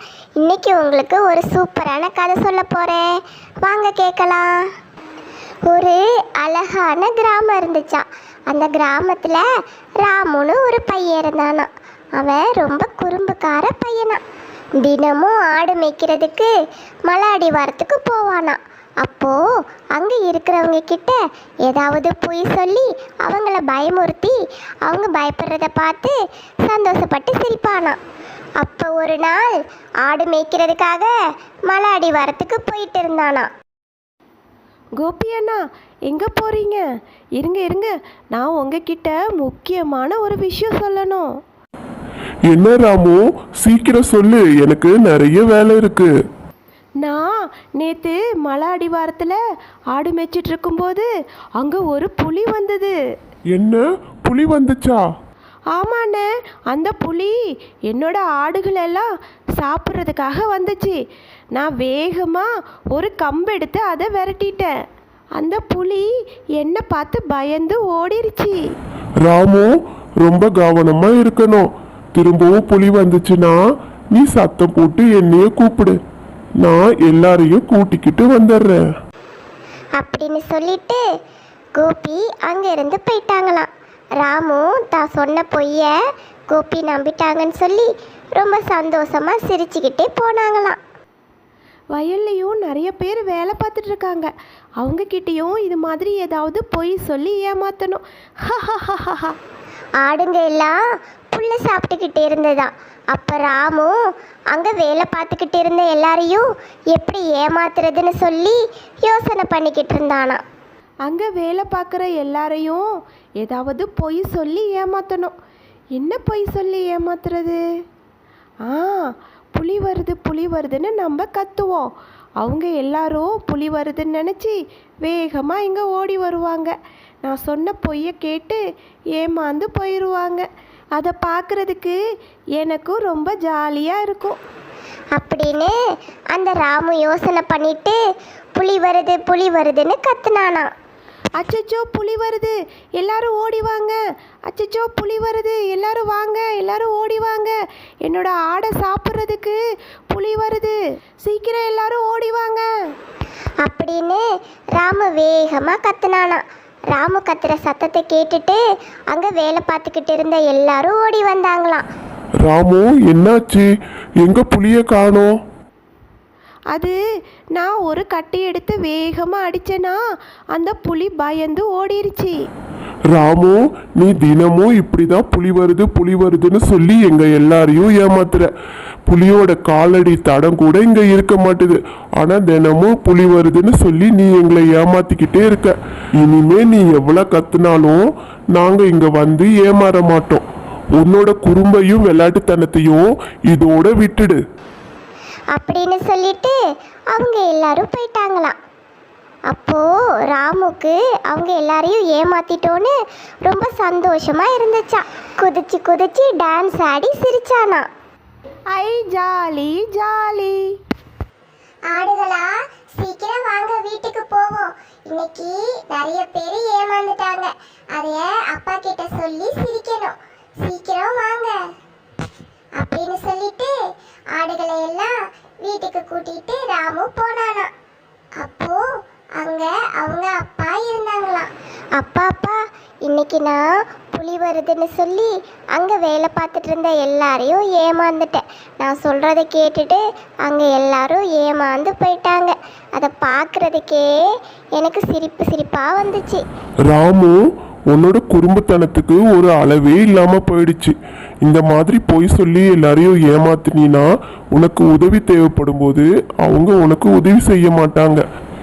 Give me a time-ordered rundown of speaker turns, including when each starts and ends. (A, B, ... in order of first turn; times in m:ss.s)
0:00.4-0:04.7 A
0:05.7-0:09.4 A
0:10.0-0:14.2 A
0:14.8-0:16.5 A
0:17.1-0:19.4 A
0:20.0-0:26.2 A
0:26.7-0:28.0 A
0:28.6-0:31.1 A
0:31.7-0:33.5 A
0:35.0-0:36.8 B
0:37.4-0:41.2 B
0:42.5-0:46.1 C
0:47.0-0:49.4 B
0:49.9-0:52.9 B
0:53.5-0:55.0 C
0:55.8-0:57.3 B
0:57.9-0:59.1 B
0:59.6-1:01.0 B
1:01.6-1:04.7 B
1:05.4-1:06.1 B
1:06.6-1:08.6 B
1:09.2-1:09.7 C
1:10.2-1:13.6 C
1:14.1-1:16.0 C
1:16.6-1:18.8 C
1:20.0-1:21.0 A
1:21.8-1:23.7 A
1:24.2-1:25.9 A
1:26.5-1:30.8 A
1:31.9-1:34.3 B
1:34.8-1:39.3 B
1:40.0-1:40.8 A
1:41.3-1:43.9 A
1:44.5-1:50.4 A
1:51.1-1:52.8 B
1:53.4-1:55.3 B
1:56.0-1:57.6 B
1:58.7-2:01.9 B
2:02.4-2:08.6 B
2:09.2-2:10.4 B
2:11.0-2:12.0 B
2:12.6-2:14.4 B
2:15.2-2:15.7 A
2:16.3-2:18.0 A
2:18.6-2:20.7 A
2:21.4-2:24.0 B
2:24.5-2:27.5 B
2:28.0-2:29.6 B
2:30.1-2:32.7 B
2:33.6-2:34.2 A
2:34.8-2:38.6 A
2:39.1-2:41.8 A
2:42.4-2:43.7 C
2:44.2-2:45.3 C
2:47.5-2:50.0 B
2:50.5-2:52.4 B
2:53.1-2:58.5 C
2:59.1-3:08.0 C
3:08.5-3:10.4 C
3:11.0-3:14.4 C
3:15.5-3:16.6 A
3:17.1-3:18.6 A
3:19.5-3:22.9 A
3:23.4-3:27.9 A
3:28.7-3:30.6 B
3:31.9-3:41.6 A
3:42.8-3:43.8 A
3:44.3-3:47.7 A
3:48.4-3:48.9 A
3:49.4-4:04.1 A
4:04.8-4:06.4 A
4:06.9-4:07.4 C
4:07.9-4:18.2 C